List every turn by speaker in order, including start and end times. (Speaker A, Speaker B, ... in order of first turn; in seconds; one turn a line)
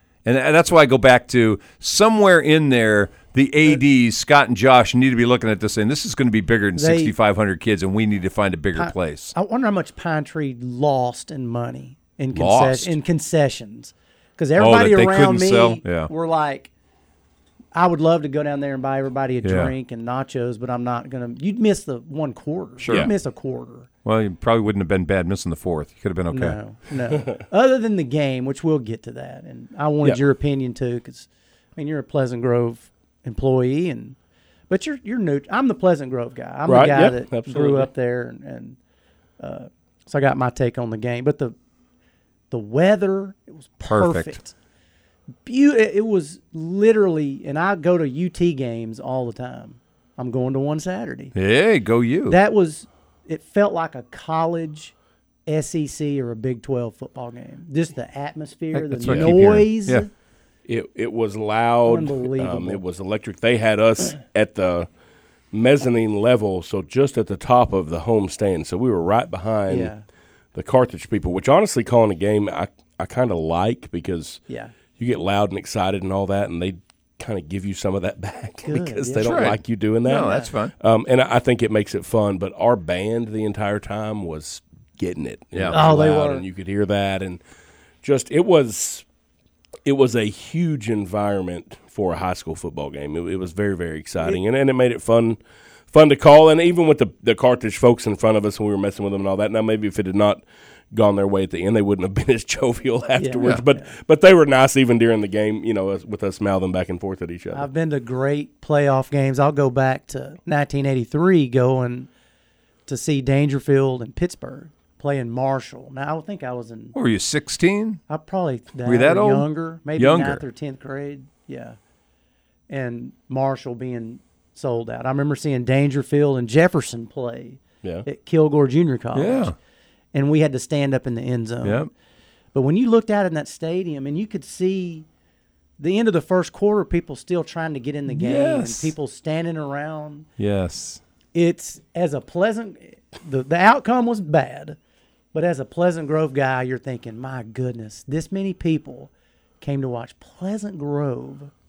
Speaker A: 0.2-9.3
Speaker B: 6.8-7.1
Speaker B: 8.7-16.7
Speaker A: 12.3-12.9
Speaker A: 14.6-16.1
Speaker B: 17.7-23.9
Speaker A: 19.4-19.7
Speaker A: 22.8-23.1
Speaker C: 22.9-23.1
Speaker A: 24.0-26.6
Speaker B: 26.3-34.1
Speaker B: 34.7-38.8
Speaker C: 36.7-37.9
Speaker B: 39.4-41.5
Speaker B: 42.5-44.5
Speaker A: 43.8-44.4
Speaker B: 45.5-51.3
Speaker A: 51.3-52.4
Speaker B: 52.3-54.9
Speaker B: 55.5-60.1
Speaker A: 58.7-60.0
Speaker C: 60.7-64.9
Speaker B: 61.8-62.8
Speaker C: 65.5-69.9
Speaker B: 69.7-70.0
Speaker C: 70.5-74.4
Speaker B: 74.5-74.7
Speaker C: 75.0-80.3
Speaker B: 78.6-79.3
Speaker A: 79.2-80.7
Speaker B: 80.0-80.5
Speaker C: 80.8-87.4
Speaker A: 85.5-85.8
Speaker B: 85.7-86.4
Speaker C: 88.0-89.0
Speaker C: 89.8-95.4
Speaker C: 95.9-107.7
Speaker B: 103.2-103.9
Speaker B: 107.5-112.1
Speaker B: 112.9-116.9
Speaker A: 116.9-118.0
Speaker B: 118.1-121.8
Speaker A: 118.8-120.4
Speaker B: 122.7-129.5
Speaker A: 129.1-129.5
Speaker B: 130.1-131.8
Speaker A: 131.6-131.9
Speaker B: 132.5-135.1
Speaker B: 135.8-140.3
Speaker A: 138.1-138.9
Speaker A: 140.4-141.0
Speaker B: 141.3-144.8
Speaker B: 145.3-149.1
Speaker B: 149.6-151.5